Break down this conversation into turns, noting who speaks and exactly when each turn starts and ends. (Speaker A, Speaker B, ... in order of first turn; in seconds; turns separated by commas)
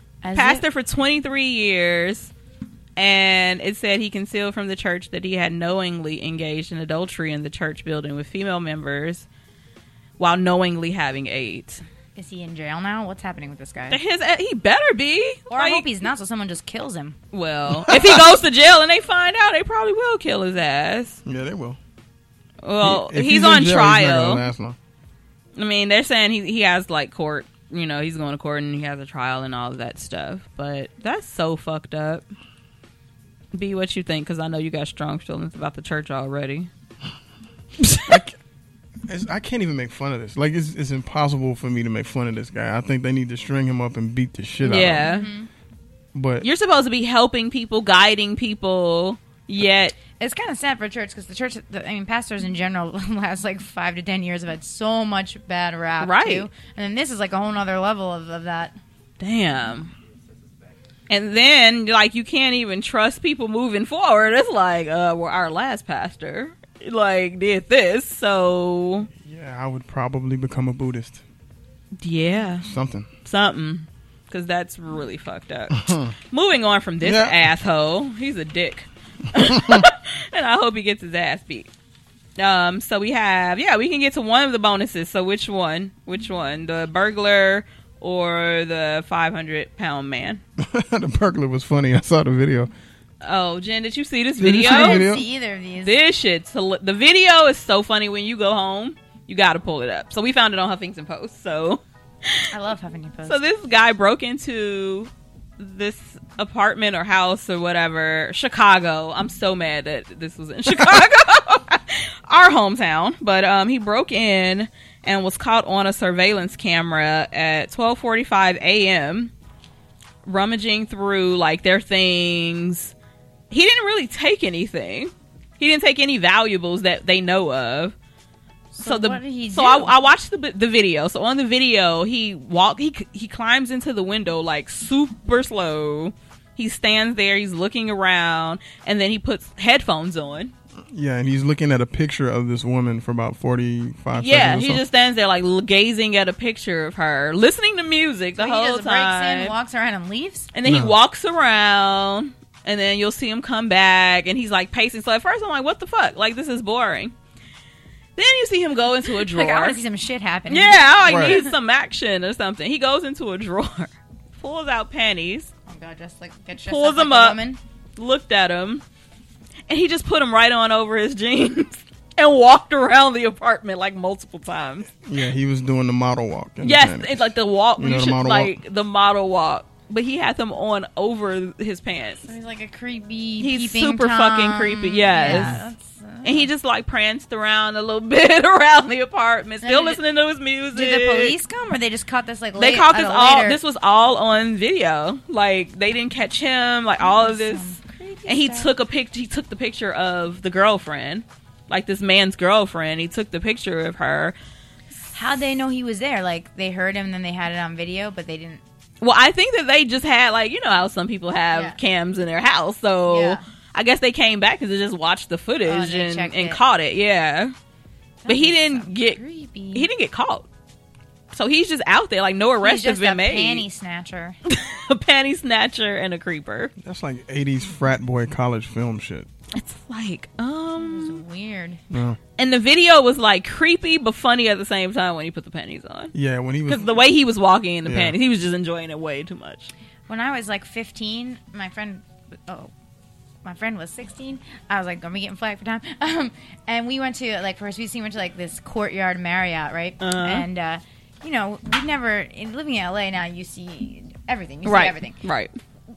Speaker A: 0.2-0.7, Speaker B: 0.3-2.3, Speaker B: 3.0-9.3, Speaker B: 10.2-11.8, Speaker A: 12.2-14.0, Speaker B: 13.9-15.8, Speaker A: 15.5-17.2, Speaker B: 17.3-21.2, Speaker C: 21.3-21.8, Speaker B: 22.6-24.4, Speaker C: 22.8-24.8, Speaker B: 25.6-32.2, Speaker B: 33.5-36.7, Speaker B: 37.8-38.2, Speaker C: 38.1-38.4, Speaker C: 39.1-45.1, Speaker B: 44.6-45.3, Speaker A: 45.0-45.5, Speaker C: 46.1-46.5, Speaker B: 46.4-50.0, Speaker A: 50.2-58.8, Speaker B: 56.0-56.5, Speaker B: 59.2-59.9, Speaker B: 61.1-69.1, Speaker C: 69.2-71.2, Speaker B: 72.0-72.7, Speaker C: 72.6-73.1, Speaker B: 73.2-81.7, Speaker C: 75.8-76.1, Speaker C: 77.0-77.4, Speaker B: 82.4-90.4, Speaker C: 90.6-92.7, Speaker B: 93.2-95.1, Speaker C: 94.4-95.2, Speaker A: 94.6-96.0, Speaker B: 95.8-102.5, Speaker A: 102.5-103.4, Speaker B: 103.3-119.3, Speaker B: 120.2-122.9, Speaker B: 123.5-128.0, Speaker A: 128.7-130.0, Speaker B: 128.8-140.5, Speaker C: 140.9-144.8, Speaker B: 144.2-149.5, Speaker A: 148.4-150.5, Speaker B: 150.5-157.1, Speaker C: 150.7-150.9, Speaker B: 158.2-159.8, Speaker A: 159.1-161.5, Speaker B: 160.5-165.5, Speaker C: 161.0-161.4, Speaker A: 165.7-167.6, Speaker B: 166.7-167.4, Speaker B: 168.0-168.8, Speaker B: 169.7-174.9, Speaker C: 175.0-178.5, Speaker B: 176.6-182.2, Speaker A: 182.2-186.5, Speaker B: 183.4-185.6, Speaker C: 185.2-185.6, Speaker B: 186.2-191.3, Speaker A: 189.6-190.0, Speaker A: 190.7-193.6, Speaker B: 192.6-197.8, Speaker A: 197.0-198.7, Speaker B: 198.3-204.3, Speaker A: 205.1-208.6, Speaker B: 209.0-217.5, Speaker A: 213.1-213.4, Speaker A: 215.7-216.6, Speaker A: 218.2-219.9, Speaker B: 218.3-219.2, Speaker B: 219.7-220.5, Speaker B: 221.3-223.6, Speaker A: 222.6-224.4, Speaker B: 224.5-226.7, Speaker C: 226.8-229.3, Speaker B: 229.5-231.2, Speaker A: 230.8-231.8, Speaker C: 231.9-232.2, Speaker B: 232.4-236.1, Speaker C: 236.1-237.0, Speaker B: 236.7-239.7, Speaker C: 237.9-238.2, Speaker A: 240.1-242.7, Speaker A: 243.4-255.2, Speaker B: 250.0-250.5, Speaker B: 254.7-255.5